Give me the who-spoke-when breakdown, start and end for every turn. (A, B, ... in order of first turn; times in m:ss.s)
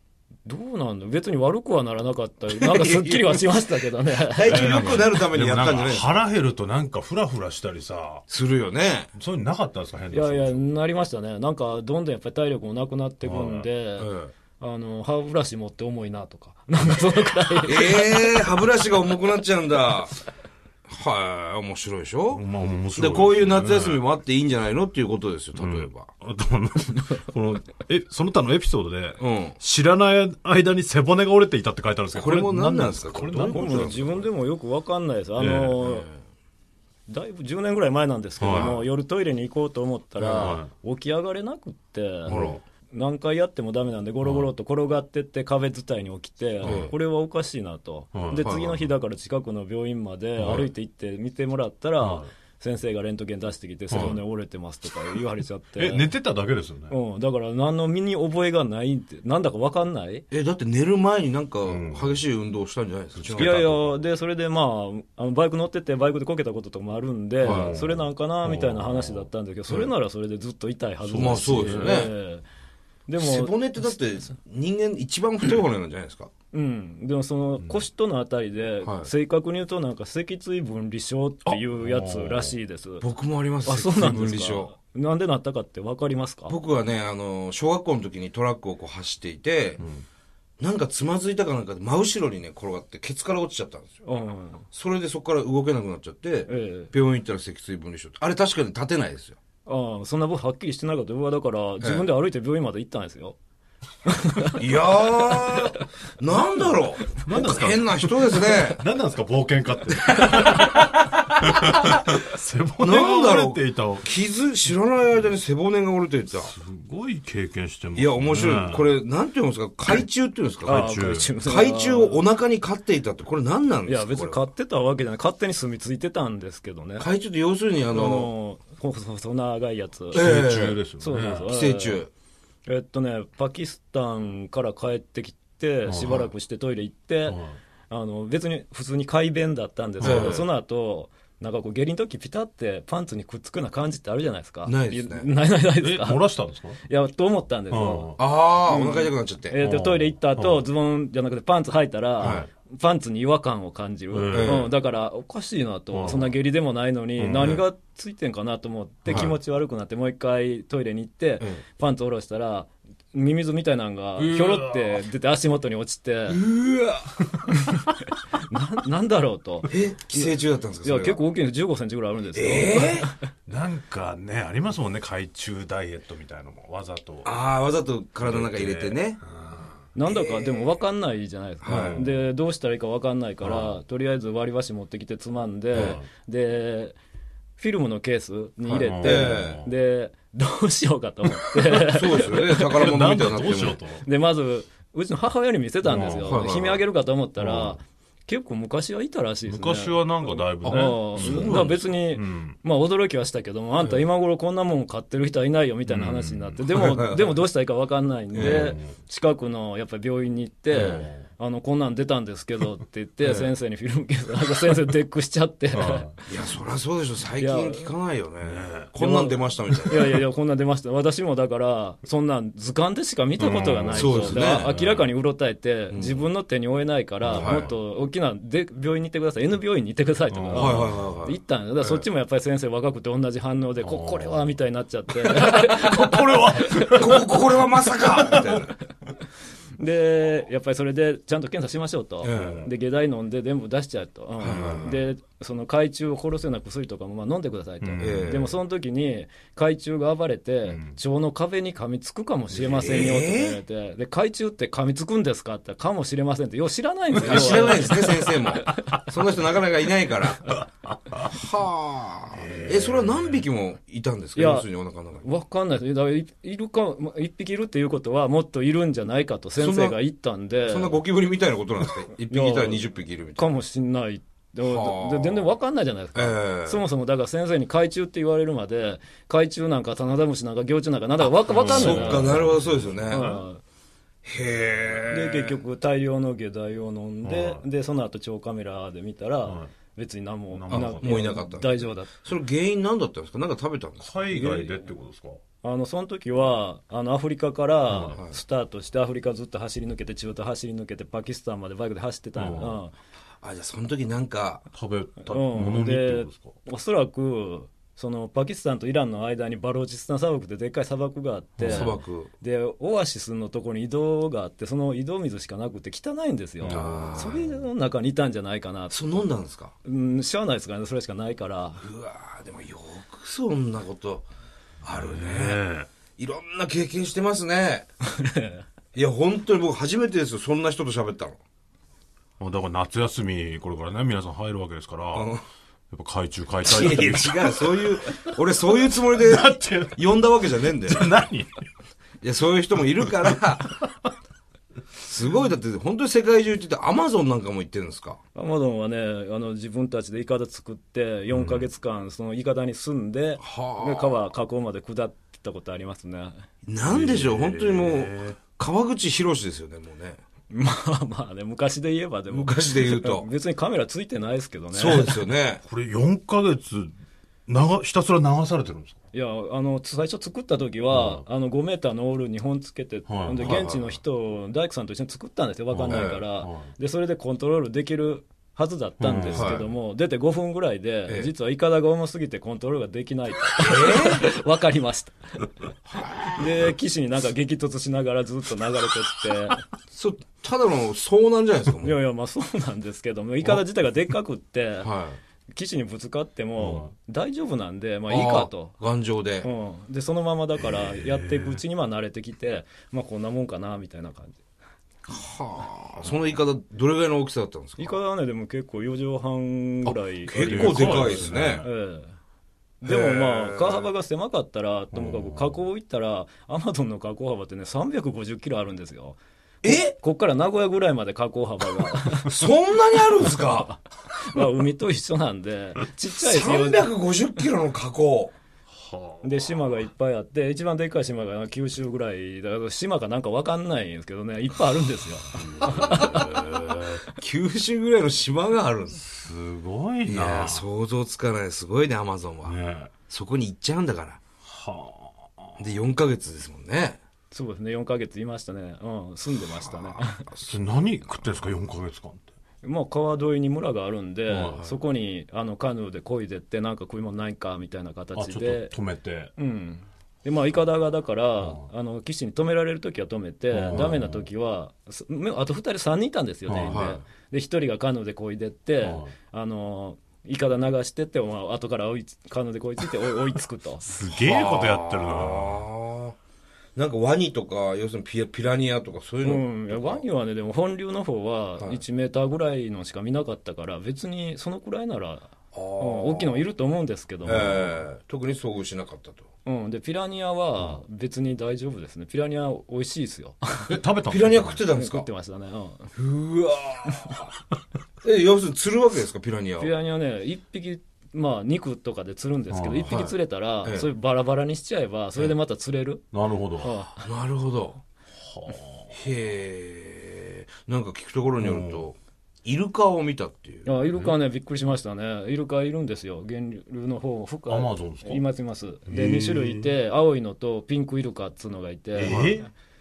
0:00.4-0:04.9 A
0:02.5-0:03.5 B
0:04.2-0:06.1 B
0:04.4-0:08.2 C
0:08.3-0:09.1 B
0:09.1-0:10.6 C
0:10.1-0:18.4 A
0:13.2-0:13.7 C
0:14.0-0:14.3 B
0:17.6-0:20.1 B
0:20.9-0:22.4 B
0:22.3-0:24.0 C
0:22.9-0:26.1 B
0:25.6-0:34.1 C
0:29.2-0:29.6 B
0:32.1-0:34.3 B
0:33.4-0:36.1 A
0:35.4-0:35.8 C
0:35.8-0:36.2 B
0:37.1-0:56.1 A
0:38.4-0:38.8 C
0:38.4-0:38.8 B
0:40.2-0:40.6 B
0:40.3-0:40.7 C
0:42.2-0:42.6 C
0:42.3-0:42.6 B
0:44.2-0:44.5 C
0:46.6-0:46.9 B
0:48.1-0:48.5 C
0:48.3-0:48.8 B
0:50.4-0:50.7 C
0:52.0-0:52.3 C
0:53.9-0:54.2 C
0:55.8-0:57.0 C
0:56.9-1:00.2 A
1:00.3-1:03.8 B
1:01.6-1:02.2 C
1:03.2-1:03.9 C
1:03.4-1:12.4 A
1:07.4-1:09.3 C
1:07.4-1:07.7 B
1:11.0-1:12.0 C
1:11.1-1:12.1 B
1:13.1-1:13.9 A
1:13.2-1:16.3 B
1:16.5-1:23.0 A
1:18.8-1:19.1 B
1:21.8-1:22.6 C
1:23.0-1:24.7 B
1:23.6-1:26.6 A
1:26.5-1:29.8 B
1:29.8-1:30.0 C
1:30.6-1:34.0 B
1:34.0-1:34.6 A
1:34.7-1:39.4 B
1:36.5-1:36.9 A
1:39.6-1:43.4 A
1:41.8-1:42.0 B
1:44.0-1:44.6 A
1:44.6-1:48.8 B
1:45.5-1:45.8 A
1:47.2-1:54.0 C
1:50.1-1:50.6 B
1:52.8-1:56.5 B
1:56.3-1:58.9 C
1:57.9-2:04.4 B
2:00.6-2:01.3 C
2:00.6-2:02.2 A
2:03.8-2:07.1 A
2:07.0-2:08.3 B
2:07.9-2:10.3 A
2:10.1-2:10.8 B
2:10.1-2:11.5 C
2:11.0-2:12.0 A
2:11.5-2:12.1 B
2:12.6-2:17.4 A
2:15.8-2:16.2 C
2:17.2-2:17.6 C
2:17.9-2:26.3 A
2:20.0-2:20.4 C
2:20.0-2:20.4 B
2:24.6-2:25.3 B
2:25.8-2:26.8 C
2:26.8-2:46.4 A
2:27.7-2:28.2 C
2:28.2-2:29.6 B
2:29.6-2:30.6 C
2:32.2-2:32.5 B
2:32.2-2:32.5 C
2:34.1-2:34.7 C
2:34.3-2:34.7 B
2:35.9-2:36.3 C
2:37.2-2:37.6 C
2:39.1-2:39.4 C
2:44.2-2:45.0 C
2:46.3-2:47.2 B
2:47.5-2:47.9 A
2:48.5-2:53.1 A
2:49.7-2:51.2 B
2:52.3-2:53.1 B
2:53.5-2:57.3 C
2:57.2-2:59.2 B
2:58.2-2:59.7 C
2:59.9-3:07.0 A
3:00.0-3:00.7 B
3:01.6-3:02.0 B
3:01.6-3:02.2 C
3:03.4-3:03.8 C
3:05.7-3:06.0 C
3:07.6-3:12.9 A
3:08.6-3:09.6 B
3:08.8-3:09.7 C
3:11.9-3:13.8 B
3:12.7-3:14.0 C
3:14.0-3:36.1 A
3:15.8-3:16.4 C
3:16.2-3:16.8 B
3:17.4-3:17.8 C
3:19.5-3:22.6 C
3:20.7-3:21.7 B
3:25.9-3:26.6 C
3:26.7-3:27.4 B
3:28.3-3:28.8 B
3:28.4-3:29.0 C
3:30.7-3:31.2 C
3:35.7-3:36.1 C
3:36.2-3:40.0 B
3:37.4-3:37.9 A
3:38.4-3:38.9 C
3:39.0-3:39.4 A
3:39.7-3:40.0 C
3:39.9-3:57.0 A
3:43.4-3:45.1 C
3:43.9-3:44.7 B
3:45.9-3:46.2 B
3:47.2-3:47.7 C
3:47.3-3:47.7 B
3:50.3-3:51.2 C
3:50.5-3:51.4 B
3:53.8-3:54.5 C
3:55.2-3:57.3 C
3:56.9-3:58.7 B
3:58.0-3:58.4 C
3:59.8-4:19.0 A
4:02.2-4:02.6 B
4:02.2-4:02.7 C
4:04.4-4:05.0 B
4:04.4-4:05.0 C
4:07.8-4:08.3 C
4:08.0-4:08.5 B
4:10.6-4:10.9 C
4:12.5-4:12.9 C
4:12.8-4:13.6 B
4:17.1-4:20.6 B
4:17.3-4:17.5 C
4:20.5-4:21.3 C
4:21.2-4:25.2 B
4:22.3-4:23.4 C
4:24.3-4:24.7 A
4:25.2-4:31.0 A
4:29.6-4:30.0 B
4:30.6-4:33.5 B
4:32.3-4:42.5 A
4:34.6-4:35.5 B
4:36.1-4:36.8 B
4:41.2-4:43.3 B
4:41.5-4:43.4 C
4:43.1-4:43.6 A
4:44.2-4:45.6 B
4:45.1-4:52.1 A
4:47.2-4:47.6 C
4:49.4-4:49.7 C
4:50.5-4:51.2 C
4:50.7-4:54.1 B
4:54.0-4:55.4 C
4:54.3-4:54.9 A
4:55.6-5:02.9 A
4:57.9-4:58.2 C
5:02.4-5:02.8 C
5:03.4-5:04.6 B
5:04.7-5:06.5 C
5:05.2-5:19.2 A
5:11.6-5:11.9 C
5:11.6-5:12.3 B
5:16.6-5:17.2 C
5:16.6-5:17.5 B
5:18.9-5:19.7 B
5:19.8-5:21.8 A
5:21.8-5:24.3 B
5:24.8-5:25.6 B
5:24.9-5:25.9 C
5:26.2-5:27.9 B
5:28.0-5:28.6 A
5:28.9-5:31.4 B
5:32.4-5:35.3 C
5:35.1-5:35.4 B
5:35.9-5:38.0 C
5:36.6-5:41.1 B
5:39.0-5:40.1 C
5:40.8-5:41.6 C
5:42.2-5:43.7 B
5:43.0-5:43.9 C
5:45.0-5:48.2 B
5:48.3-5:56.4 A
5:51.3-5:51.6 C
5:53.4-5:54.2 B
5:56.6-6:00.2 B
5:56.9-5:58.4 C
6:00.5-6:05.2 A
6:02.3-6:03.3 B
6:04.7-6:05.6 B
6:05.6-6:06.9 C
6:07.5-6:09.0 C
6:09.1-6:25.6 A
6:10.9-6:11.2 C
6:13.1-6:13.8 C
6:13.4-6:13.8 B
6:15.7-6:16.7 C
6:15.9-6:16.2 B
6:19.0-6:19.6 C
6:19.2-6:19.6 B
6:23.6-6:24.2 B
6:25.9-6:26.5 B
6:26.3-6:29.6 A
6:29.9-6:32.0 B
6:31.8-6:34.9 A
6:34.8-6:35.2 B
6:35.5-6:38.8 A
6:36.6-6:36.9 C
6:38.1-6:39.5 B
6:39.4-6:44.4 A
6:40.6-6:41.6 C
6:45.0-6:48.0 B
6:47.8-6:52.1 A
6:49.8-6:51.6 B
6:50.3-6:51.7 C
6:52.8-7:02.3 A
6:52.8-6:53.9 B
6:54.9-6:55.6 C
6:59.6-6:59.9 B
7:02.2-7:03.7 B
7:03.2-7:06.9 A
7:06.2-7:08.3 B
7:08.7-7:09.5 C
7:09.2-7:16.1 A
7:15.6-7:17.0 C
7:15.6-7:16.3 B
7:17.1-7:19.0 B
7:19.0-7:20.6 C
7:20.0-7:22.5 B
7:22.4-7:22.9 C
7:23.1-7:24.2 B
7:24.4-7:25.5 C
7:25.6-7:27.0 B
7:27.3-7:30.3 A
7:29.5-7:30.5 B
7:30.4-7:32.3 C
7:32.6-7:38.7 A
7:34.3-7:34.6 C
7:38.1-7:39.3 C
7:39.4-7:53.8 A
7:43.5-7:44.3 C
7:46.5-7:46.9 C
7:46.6-7:47.0 B
7:48.8-7:49.1 C
7:53.8-7:55.6 C
7:54.1-7:56.1 B
7:56.8-8:00.0 B
7:59.2-8:07.8 A
8:05.5-8:06.4 B
8:07.2-8:09.2 B
8:09.4-8:13.8 A
8:13.7-8:14.6 C
8:14.0-8:15.1 B
8:14.8-8:15.9 A
8:15.9-8:17.2 B
8:18.0-8:19.7 B
8:19.6-8:26.1 A
8:22.5-8:23.1 C
8:22.9-8:23.1 B
8:26.1-8:26.7 C
8:26.6-8:27.0 A
8:27.0-8:27.8 B
8:28.2-8:28.9 C
8:28.9-8:33.7 B
8:31.4-8:31.8 C
8:33.6-8:42.2 A
8:37.5-8:38.2 C
8:38.9-8:39.7 C
8:41.9-8:42.5 C
8:42.0-8:42.3 B